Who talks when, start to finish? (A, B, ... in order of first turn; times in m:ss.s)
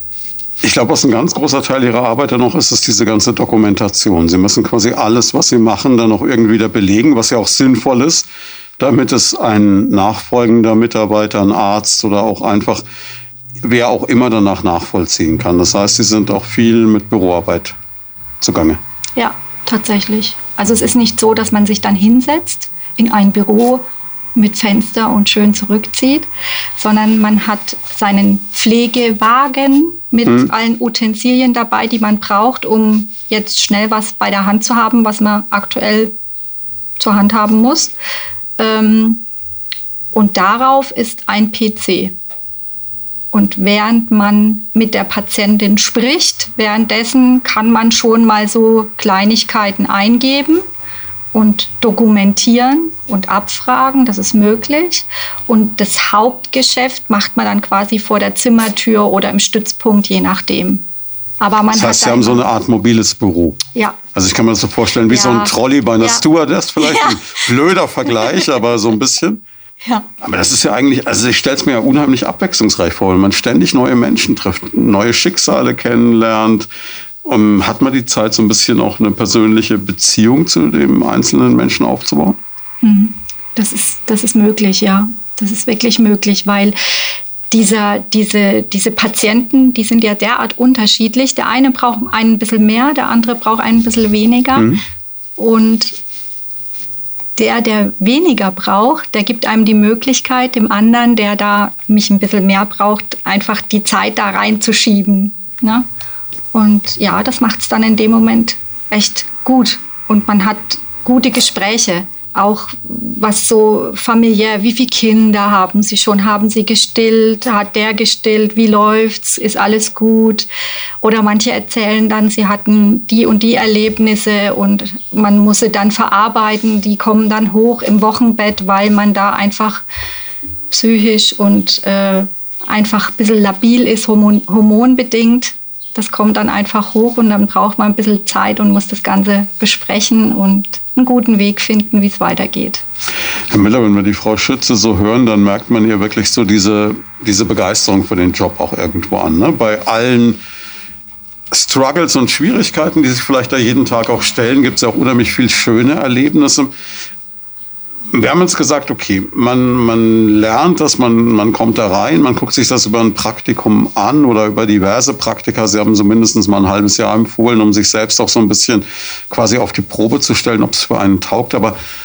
0:00.6-0:08.3 A
0:08.8-0:12.8 A
0:13.6-0:17.8 A
0:18.4-0:18.8 A
0:19.2-0:23.8 B
0:24.4-0:36.1 B
0:37.0-0:37.9 B
0:38.6-0:39.2 B
0:40.1-0:42.2 B
0:43.3-0:50.6 B
0:51.3-1:00.9 B
1:01.4-1:02.5 B
1:01.7-1:03.6 A
1:04.1-1:09.4 A
1:05.1-1:06.2 B
1:06.8-1:07.2 B
1:10.2-1:16.7 A
1:17.2-1:22.4 A
1:22.8-1:26.8 B
1:27.5-1:34.7 B
1:34.6-1:34.8 A
1:35.4-1:36.0 B
1:37.4-1:45.9 B
1:46.5-2:00.5 B
2:01.0-2:09.8 B
2:10.7-2:22.8 B
2:23.5-2:30.4 A
2:31.5-2:36.7 A
2:38.1-2:51.8 A